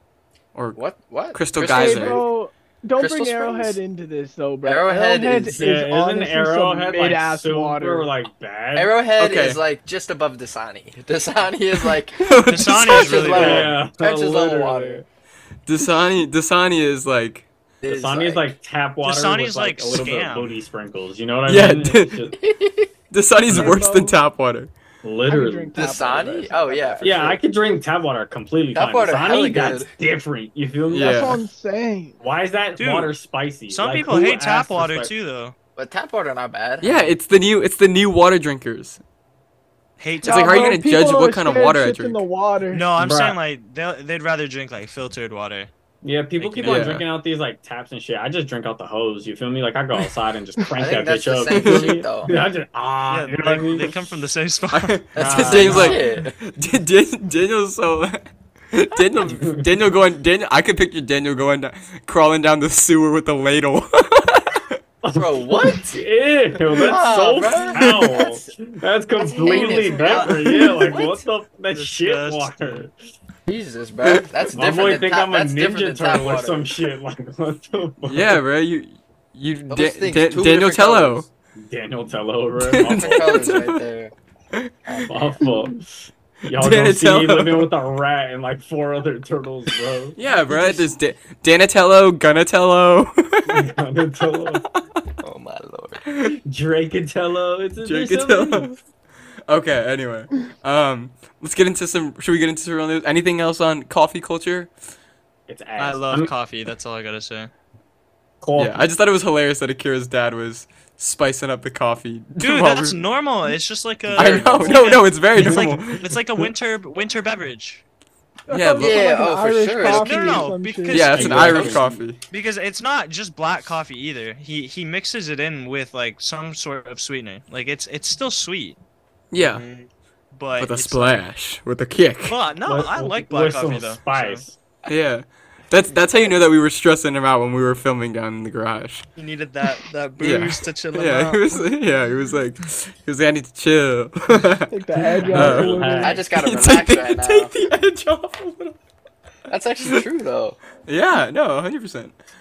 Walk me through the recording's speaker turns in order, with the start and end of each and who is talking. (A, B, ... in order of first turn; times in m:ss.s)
0:00.5-0:00.8 A
0:00.8-0:02.2 B
0:01.3-0:02.2 A
0:01.6-0:08.1 C
0:03.0-0:03.8 B
0:04.6-0:05.6 B
0:05.5-0:08.9 D
0:08.7-0:15.0 B
0:09.2-0:09.6 A
0:12.2-0:13.4 A
0:12.5-0:13.7 E
0:13.2-0:15.0 D
0:15.6-0:17.5 A
0:17.8-0:18.5 B
0:17.9-0:22.4 D
0:19.0-0:20.6 E
0:21.4-0:22.3 A
0:22.4-0:22.9 B
0:23.1-0:24.7 A
0:23.5-0:23.7 D
0:23.5-0:24.2 C
0:25.0-0:25.7 D
0:25.3-0:27.4 C
0:25.7-0:27.4 B
0:27.0-0:31.3 D
0:28.7-0:29.9 B
0:30.9-0:31.4 A
0:30.9-0:32.2 C
0:32.2-0:35.1 D
0:32.8-0:33.1 E
0:33.7-0:35.5 E
0:35.8-0:37.1 B
0:36.8-0:39.0 A
0:40.0-0:40.8 E
0:40.2-0:42.2 A
0:40.2-0:42.9 C
0:42.7-0:45.7 E
0:43.0-0:43.4 D
0:46.0-0:53.9 D
0:46.4-0:46.9 E
0:46.6-0:47.0 A
0:50.8-0:52.3 B
0:51.5-0:51.9 A
0:53.1-0:55.0 E
0:54.7-1:04.8 A
0:55.2-0:56.4 B
0:55.2-0:56.0 D
0:59.3-0:59.6 D
1:05.0-1:12.9 D
1:05.1-1:06.0 B
1:06.7-1:08.5 B
1:07.8-1:08.1 A
1:09.2-1:11.0 B
1:09.8-1:10.4 E
1:11.7-1:12.8 E
1:13.5-1:16.6 B
1:14.5-1:18.4 D
1:18.0-1:21.3 A
1:19.7-1:21.2 B
1:21.6-1:23.4 D
1:22.7-1:23.8 A
1:22.8-1:24.1 B
1:24.5-1:25.5 A
1:24.9-1:25.3 B
1:25.1-1:25.9 D
1:26.4-1:30.2 D
1:26.5-1:27.7 A
1:30.2-1:33.6 A
1:30.3-1:30.8 B
1:33.5-1:34.6 D
1:35.2-1:36.0 B
1:36.0-1:36.4 A
1:36.4-1:38.7 D
1:37.8-1:38.8 A
1:39.5-1:44.7 A
1:45.5-1:46.3 D
1:45.8-1:47.5 E
1:48.4-1:48.8 D
1:48.6-1:53.0 A
1:52.4-1:57.8 E
1:54.1-1:56.1 A
1:54.2-1:54.6 D
1:55.3-1:55.8 D
1:58.5-2:01.5 C
1:58.5-1:59.0 A
1:58.8-2:00.5 B
1:59.8-2:01.7 E
2:00.9-2:02.2 A
2:01.2-2:01.9 B
2:02.3-2:08.8 E
2:09.3-2:09.6 A
2:09.4-2:09.9 B
2:10.3-2:11.2 E
2:10.6-2:12.4 A
2:12.3-2:14.4 E
2:12.6-2:14.6 D
2:14.9-2:19.0 A
2:19.2-2:21.6 E
2:20.2-2:28.8 A
2:24.7-2:26.2 C
2:25.2-2:26.2 D
2:26.0-2:27.5 B
2:29.5-2:30.6 B
2:30.8-2:32.1 A